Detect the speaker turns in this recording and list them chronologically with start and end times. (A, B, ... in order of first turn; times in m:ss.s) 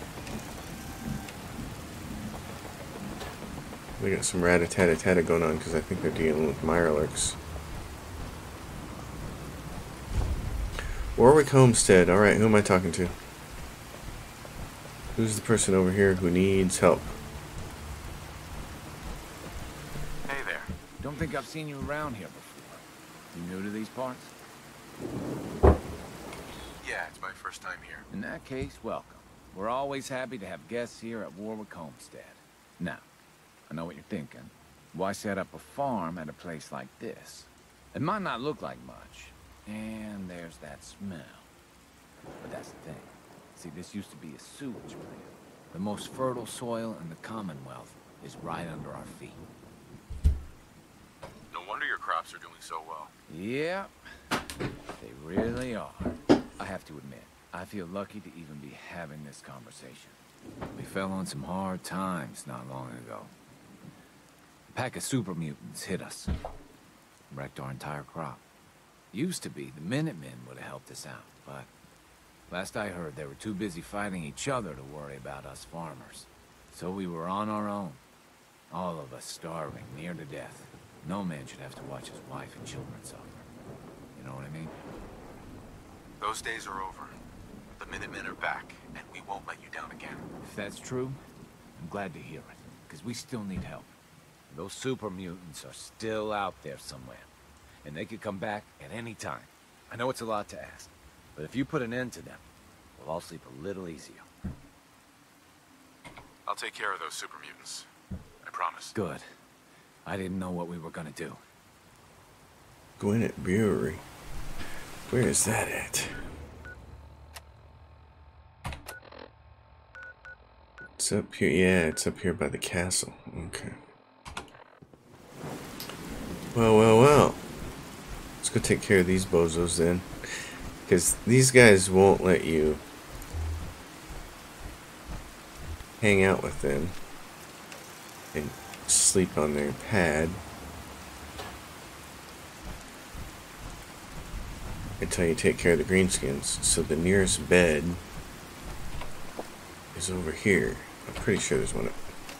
0:04.0-0:07.4 A
0:11.2-0:13.2 A
0:15.2-0:17.1 A
0:20.3-0:20.7 B
0:21.0-0:24.3 C
0:26.8-0:28.0 B
0:28.1-0:33.0 C
0:33.7-0:41.5 C
0:42.4-0:49.4 C
0:51.5-0:53.1 B
0:53.3-0:53.9 C
0:55.0-1:00.2 C
1:00.7-1:03.3 C
1:04.7-1:06.3 C
1:07.3-1:08.4 C
1:09.1-1:11.7 C
1:12.5-1:18.0 C
1:18.7-1:23.4 C
1:24.2-1:24.8 C
1:26.2-1:27.2 B
1:27.8-1:30.3 B
1:30.4-1:31.2 C
1:31.8-1:33.9 C
1:34.5-1:37.3 C
1:37.8-1:42.4 C
1:43.0-1:44.3 C
1:46.5-1:47.9 B
1:48.4-1:49.0 B
1:48.9-1:49.3 C
1:50.1-1:51.4 C
1:53.0-1:54.0 A
1:55.1-1:56.2 A
2:01.0-2:03.8 A
2:06.5-2:07.4 A
2:08.4-2:12.8 A
2:16.0-2:17.0 A
2:18.3-2:20.4 A
2:25.0-2:28.0 A
2:29.9-2:32.0 A